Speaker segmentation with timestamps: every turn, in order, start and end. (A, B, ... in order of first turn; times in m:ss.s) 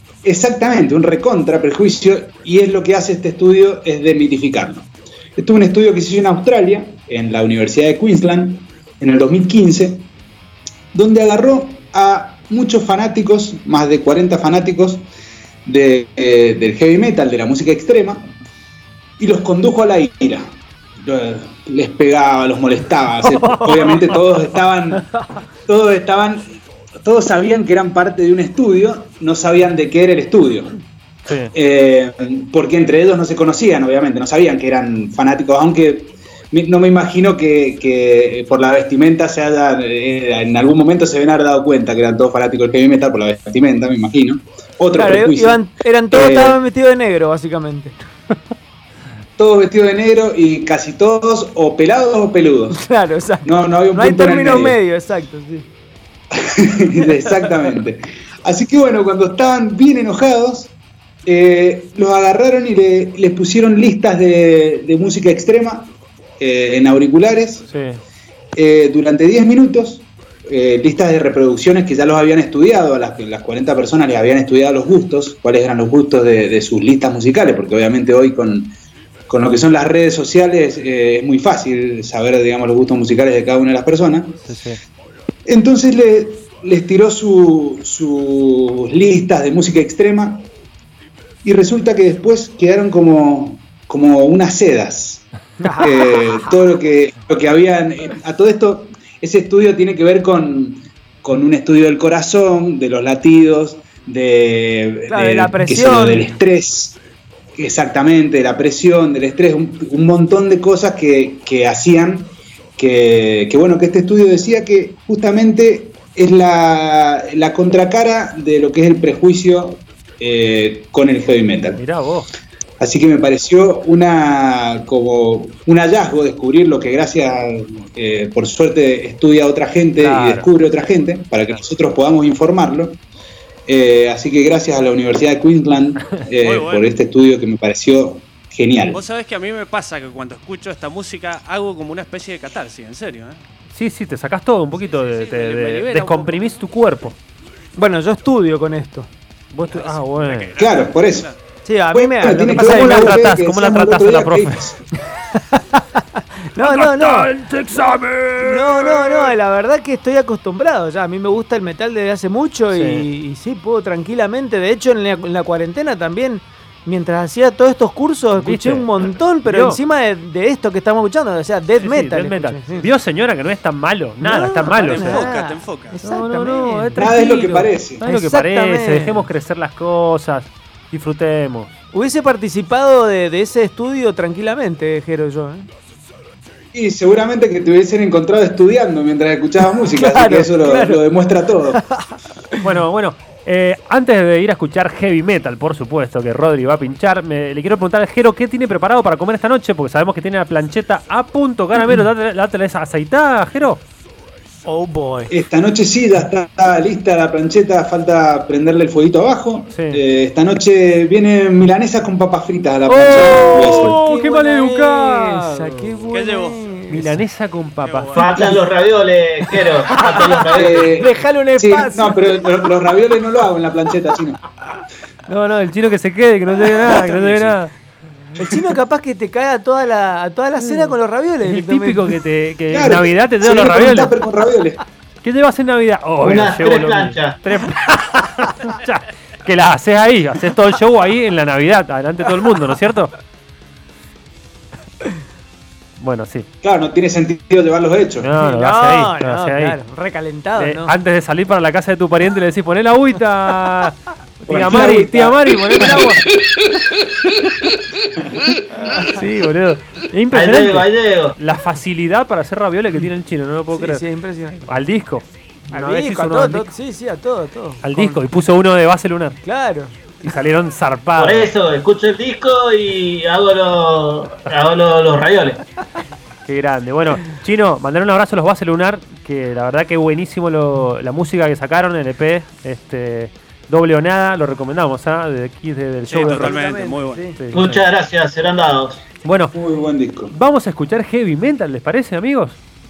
0:00.2-0:10.1 A
0:10.9-0:15.1 A
0:15.7-0:18.3 A
0:19.2-0:25.1 A
0:23.4-0:24.0 B
0:25.7-0:30.8 A
0:31.3-0:31.5 B
0:31.5-0:46.6 A
0:44.9-0:48.0 C
0:49.4-0:52.8 A
0:52.7-0:55.7 C
0:53.4-0:54.8 A
0:56.4-1:00.8 A
1:01.3-1:07.6 A
1:07.7-1:08.0 B
1:08.6-1:18.7 A
1:19.3-1:24.4 A
1:24.5-1:24.8 B
1:25.5-1:30.5 A
1:31.4-1:47.0 A
1:35.6-1:35.9 C
1:45.1-1:46.2 C
1:47.6-2:01.8 A
2:01.8-2:02.3 B
2:02.8-2:13.0 A
2:10.0-2:10.5 B
2:13.7-2:19.0 A
2:16.4-2:16.9 D
2:18.9-2:23.4 D
2:23.7-2:27.2 B
2:24.8-2:26.5 D
2:27.8-2:29.1 C
2:29.5-2:30.5 B
2:29.7-2:31.4 D
2:30.6-2:31.3 A
2:31.6-2:33.2 C
2:31.9-2:34.8 A
2:32.5-2:34.6 B
2:35.7-2:36.0 C
2:36.5-2:37.3 C
2:36.6-2:39.3 B
2:38.4-2:52.9 C
2:42.7-2:43.1 B
2:48.4-2:48.9 B
2:49.4-2:49.8 B
2:51.8-2:55.2 B
2:54.2-2:57.1 C
2:54.6-2:56.0 D
2:56.0-3:01.8 B
2:57.0-2:58.0 A
2:58.0-2:59.3 C
3:01.9-3:05.7 C
3:06.7-3:11.8 A
3:09.8-3:11.0 C
3:11.7-3:12.7 C
3:12.6-3:23.8 B
3:24.7-3:25.3 C
3:25.3-3:34.0 A
3:29.7-3:30.0 B
3:32.9-3:37.2 C
3:33.1-3:35.9 B
3:36.1-3:36.7 D
3:36.9-3:38.3 B
3:37.8-3:38.6 D
3:38.2-3:40.8 E
3:38.2-3:38.6 C
3:39.4-3:42.6 C
3:40.5-3:44.4 A
3:45.3-3:47.7 B
3:47.0-3:47.6 D
3:48.4-3:52.2 C
3:50.6-3:54.1 B
3:52.7-3:54.8 A
3:55.2-4:03.1 B
3:56.2-3:57.4 E
4:06.0-4:06.5 B
4:06.6-4:08.3 A
4:08.2-4:09.8 B
4:08.4-4:11.0 C
4:10.6-4:16.2 B
4:14.5-4:15.4 A
4:14.6-4:15.0 C
4:15.8-4:16.2 C
4:18.7-4:19.2 C
4:18.8-4:24.0 B
4:20.3-4:21.4 E
4:23.7-4:24.8 C
4:24.7-4:26.7 B
4:25.7-4:28.2 C
4:27.8-4:29.4 B
4:29.4-4:29.9 C
4:30.2-4:31.5 B
4:31.2-4:35.6 E
4:36.5-4:46.6 B
4:46.1-4:47.3 D
4:46.2-4:47.4 C
4:47.4-4:47.8 B
4:47.5-4:49.1 E
4:49.2-4:49.5 B
4:49.5-4:50.3 A
4:50.3-4:52.6 B